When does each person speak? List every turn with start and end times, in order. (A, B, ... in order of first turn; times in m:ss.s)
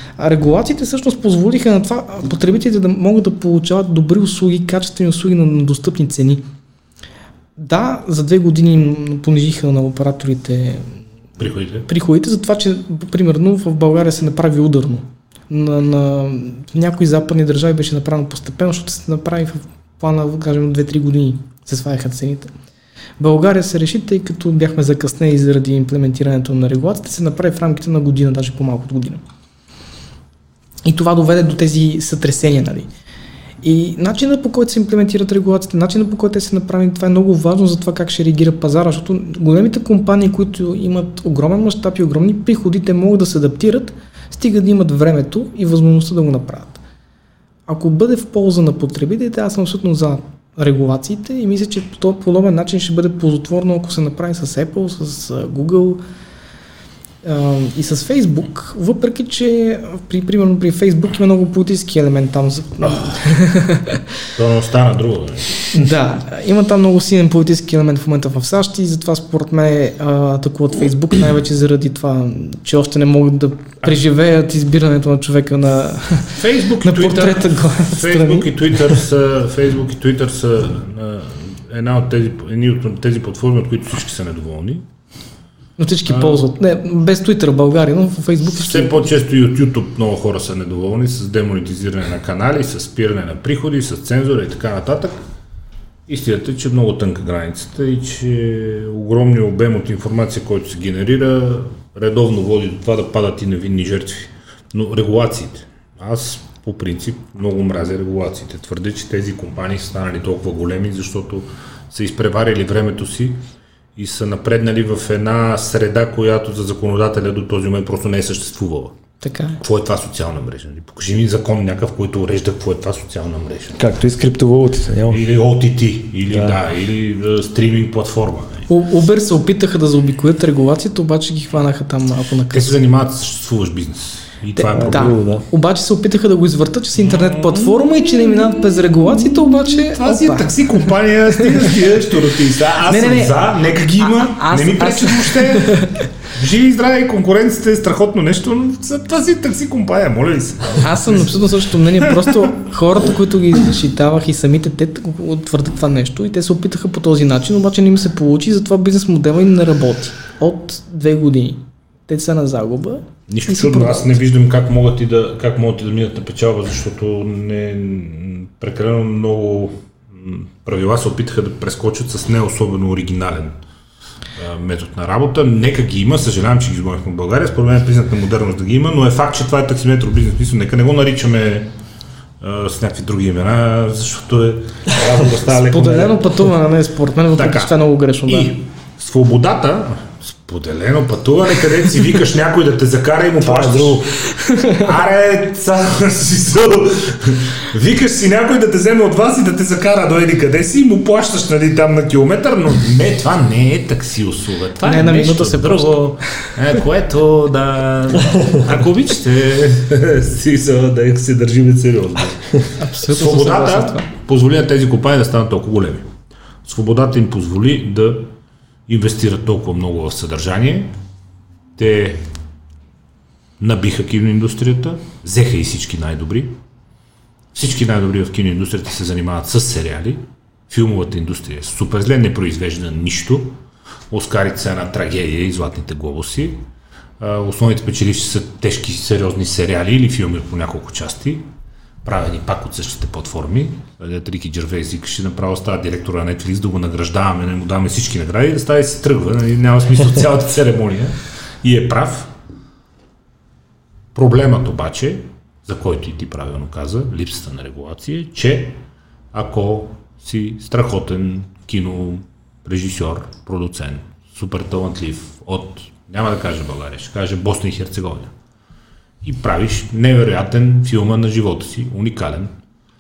0:00.2-0:06.4 A
0:07.6-0:10.9 A
0:11.4-0:11.9 B
0:11.9-0:22.5 A
0:23.2-0:29.2 A
0:30.8-0:32.9 A
0:33.6-0:46.8 A
0:47.7-0:56.0 A
0:57.2-1:04.0 A
1:02.8-1:03.2 B
1:04.4-1:05.6 B
1:05.7-1:18.5 A
1:16.4-1:24.8 B
1:25.8-1:29.1 A
1:26.1-1:26.4 B
1:28.5-1:35.2 B
1:36.1-1:53.4 B
1:54.0-1:58.9 B
1:59.2-1:59.6 A
1:59.6-2:03.8 B
2:03.8-2:05.2 C
2:05.1-2:08.7 B
2:06.3-2:06.6 C
2:08.7-2:12.8 A
2:12.5-2:15.1 B
2:14.6-2:20.8 A
2:14.7-2:15.4 C
2:17.0-2:17.6 B
2:19.6-2:31.3 B
2:21.4-2:21.7 A
2:22.9-2:26.0 A
2:30.8-2:44.2 A
2:43.3-2:53.6 B
2:54.4-3:01.7 B
3:02.4-3:06.4 B
3:05.6-3:08.6 A
3:07.4-3:36.1 B
3:13.4-3:14.0 C
3:14.4-3:14.9 A
3:24.8-3:26.5 A
3:32.8-3:34.1 A
3:36.6-3:38.3 B
3:38.9-3:40.9 B
3:41.8-3:42.2 B
3:43.6-3:46.6 B
3:47.5-3:53.6 B
3:54.1-3:56.6 B
3:57.2-4:01.4 B
4:02.0-4:12.3 B
4:14.2-4:18.8 B
4:19.3-4:28.3 B
4:29.2-4:32.5 B